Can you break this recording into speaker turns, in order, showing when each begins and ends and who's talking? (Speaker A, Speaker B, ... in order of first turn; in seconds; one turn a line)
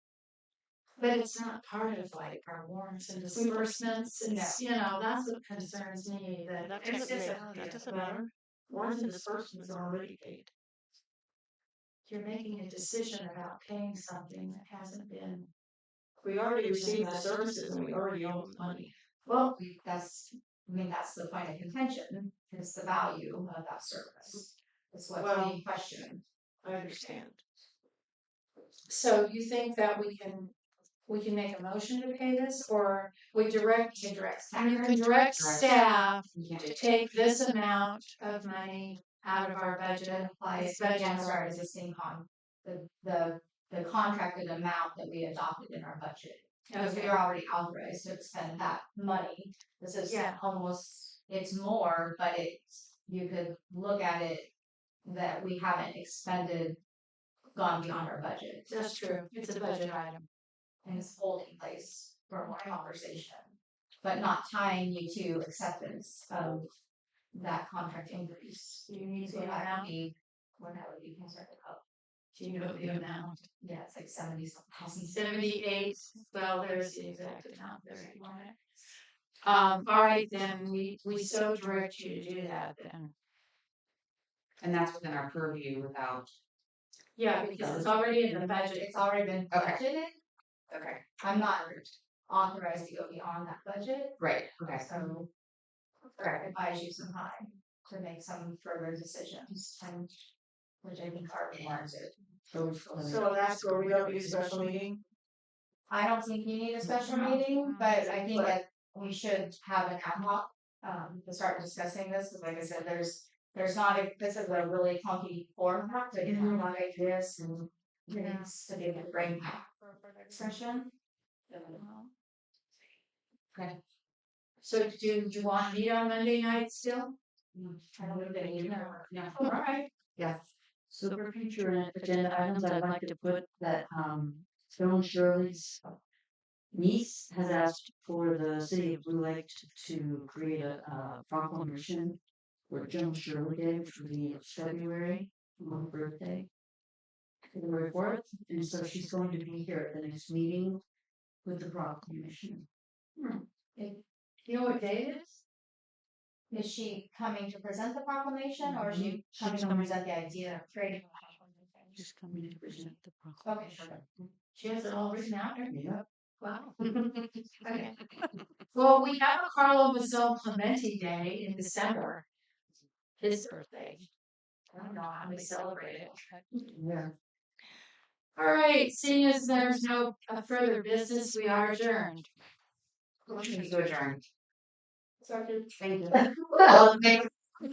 Speaker A: 1.0-10.1
Speaker B: 3.3-3.8
Speaker C: 4.2-4.6
Speaker B: 6.6-10.5
Speaker A: 12.1-15.5
Speaker B: 16.2-18.9
Speaker A: 16.6-17.4
Speaker C: 19.3-26.2
Speaker B: 25.2-25.6
Speaker B: 26.6-27.4
Speaker A: 28.9-30.5
Speaker A: 31.1-41.5
Speaker C: 34.0-35.1
Speaker D: 35.4-35.8
Speaker D: 36.3-36.8
Speaker C: 40.1-54.5
Speaker A: 46.7-47.2
Speaker A: 50.1-50.4
Speaker C: 55.0-56.8
Speaker C: 57.5-58.7
Speaker A: 58.7-60.3
Speaker C: 60.9-66.7
Speaker C: 67.3-71.8
Speaker A: 68.9-70.0
Speaker A: 72.3-73.5
Speaker C: 73.6-75.2
Speaker A: 75.0-78.6
Speaker A: 79.4-83.1
Speaker D: 84.6-86.3
Speaker A: 87.2-88.9
Speaker C: 88.7-90.2
Speaker D: 89.5-89.8
Speaker D: 90.7-91.0
Speaker C: 91.2-91.7
Speaker C: 92.3-95.3
Speaker D: 94.2-94.8
Speaker C: 96.2-100.3
Speaker C: 100.8-102.1
Speaker E: 102.5-104.8
Speaker B: 103.0-105.0
Speaker C: 105.9-119.7
Speaker A: 107.0-108.4
Speaker E: 116.3-116.6
Speaker A: 119.8-120.3
Speaker C: 120.3-120.9
Speaker A: 121.7-122.1
Speaker A: 124.6-127.2
Speaker C: 127.5-129.8
Speaker A: 128.1-129.8
Speaker E: 130.2-135.8
Speaker E: 136.7-146.5
Speaker E: 147.5-150.8
Speaker E: 151.4-152.7
Speaker A: 153.2-155.4
Speaker C: 156.5-162.0
Speaker E: 158.6-160.0
Speaker E: 162.0-164.0
Speaker C: 163.4-164.0
Speaker A: 164.5-165.7
Speaker E: 165.7-166.0
Speaker A: 166.4-166.8
Speaker C: 166.8-167.9
Speaker A: 167.7-167.9
Speaker A: 168.7-172.2
Speaker A: 173.2-174.1
Speaker A: 174.7-176.2
Speaker E: 176.7-177.1
Speaker A: 178.4-182.3
Speaker D: 183.4-184.2
Speaker B: 185.2-185.7